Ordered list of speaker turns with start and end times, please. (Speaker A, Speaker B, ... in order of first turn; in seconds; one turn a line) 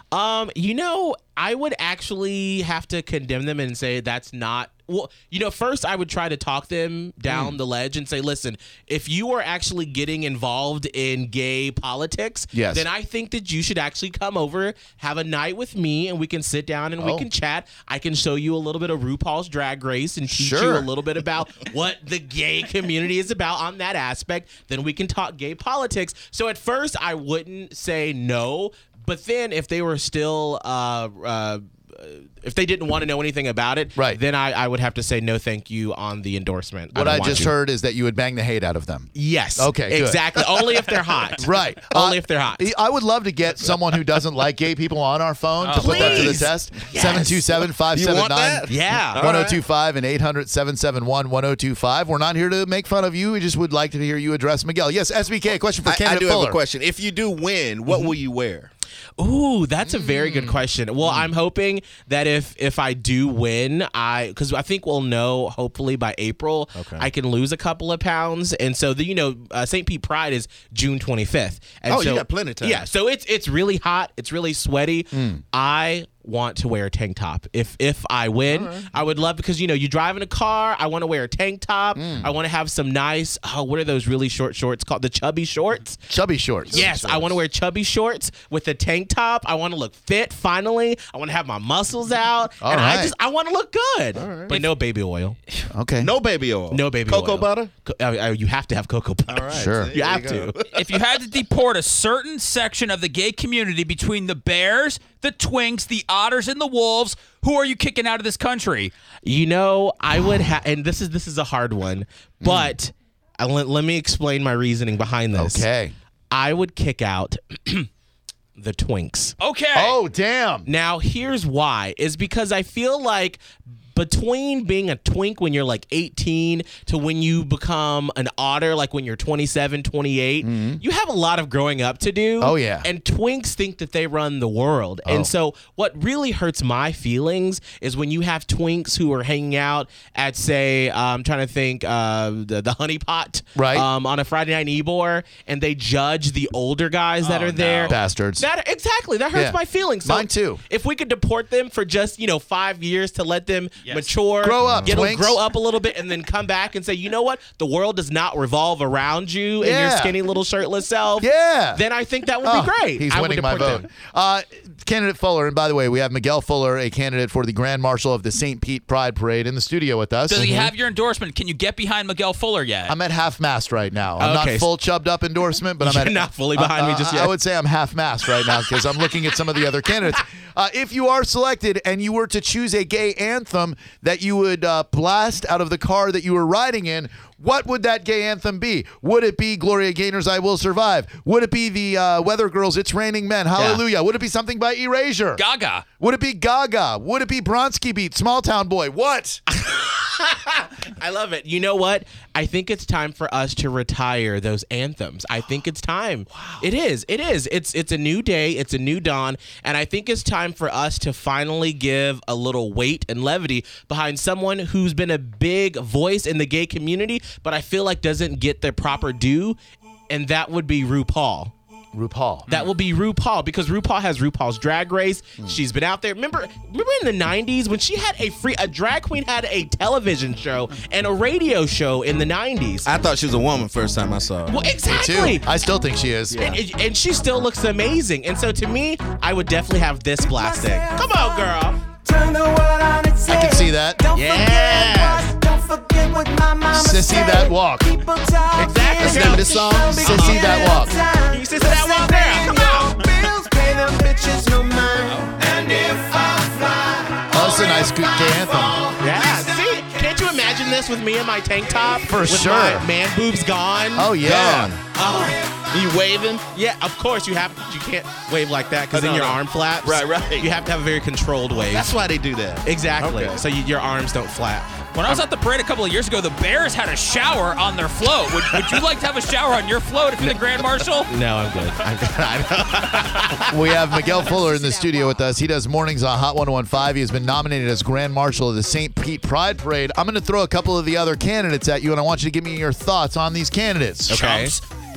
Speaker A: 0.1-37.5
Speaker B: 7.3-7.6
Speaker B: 12.5-12.8
Speaker B: 17.0-17.3
Speaker B: 20.3-20.9
Speaker B: 36.9-40.2
Speaker A: 39.1-42.7
Speaker B: 41.4-56.6
Speaker C: 45.6-46.5
Speaker A: 45.7-47.4
Speaker D: 47.0-49.6
Speaker A: 48.7-49.2
Speaker D: 55.8-58.7
Speaker A: 59.2-86.0
Speaker D: 61.0-61.3
Speaker D: 66.8-67.1
Speaker D: 71.9-72.9
Speaker B: 75.1-75.4
Speaker D: 78.5-78.9
Speaker D: 82.0-82.3
Speaker B: 82.0-82.3
Speaker B: 86.1-86.9
Speaker D: 86.7-87.3
Speaker A: 86.8-95.4
Speaker B: 92.6-93.1
Speaker D: 94.1-94.7
Speaker B: 95.7-96.1
Speaker D: 96.0-97.7
Speaker A: 96.7-100.6
Speaker D: 99.3-100.9
Speaker B: 99.5-99.9
Speaker C: 100.7-108.9
Speaker A: 109.2-115.7
Speaker B: 112.4-112.7
Speaker B: 115.3-115.9
Speaker A: 116.3-117.9
Speaker A: 118.6-119.3
Speaker C: 119.4-120.0
Speaker B: 119.7-120.7
Speaker A: 120.6-163.9
Speaker B: 130.4-130.8
Speaker B: 132.4-132.9
Speaker B: 143.6-143.8
Speaker C: 147.2-147.9
Speaker B: 147.9-148.4
Speaker B: 149.3-150.6
Speaker C: 153.8-154.1
Speaker B: 154.4-155.4
Speaker D: 154.6-155.1
Speaker B: 159.6-160.1
Speaker B: 161.2-161.8
Speaker B: 162.4-170.5
Speaker C: 170.3-172.9
Speaker D: 170.4-170.7
Speaker B: 172.9-195.4
Speaker A: 174.2-174.7
Speaker A: 175.8-177.4
Speaker A: 178.4-178.7
Speaker A: 193.5-193.8
Speaker C: 195.4-195.8
Speaker B: 196.0-199.4
Speaker A: 199.5-221.5
Speaker B: 206.3-206.6
Speaker B: 221.9-222.5
Speaker A: 222.5-232.9
Speaker D: 232.8-234.7
Speaker A: 234.5-235.5
Speaker B: 234.8-236.5
Speaker D: 236.3-236.6
Speaker A: 236.5-241.9
Speaker E: 240.4-241.3
Speaker E: 242.0-257.3
Speaker B: 243.3-244.0
Speaker A: 244.1-245.4
Speaker B: 246.7-247.9
Speaker A: 248.5-250.4
Speaker D: 249.0-250.2
Speaker B: 249.0-250.9
Speaker A: 251.3-252.9
Speaker C: 255.0-255.4
Speaker B: 257.3-258.9
Speaker A: 258.9-264.1
Speaker B: 262.0-262.9
Speaker B: 263.9-264.7
Speaker D: 264.1-264.9
Speaker A: 264.9-265.6
Speaker D: 265.6-266.4
Speaker A: 266.5-271.9
Speaker D: 268.9-270.5
Speaker D: 271.6-273.4
Speaker A: 272.6-275.2
Speaker C: 274.9-281.1
Speaker D: 278.4-278.8
Speaker A: 281.0-283.6
Speaker B: 283.5-294.2
Speaker A: 294.1-294.6
Speaker C: 294.1-294.6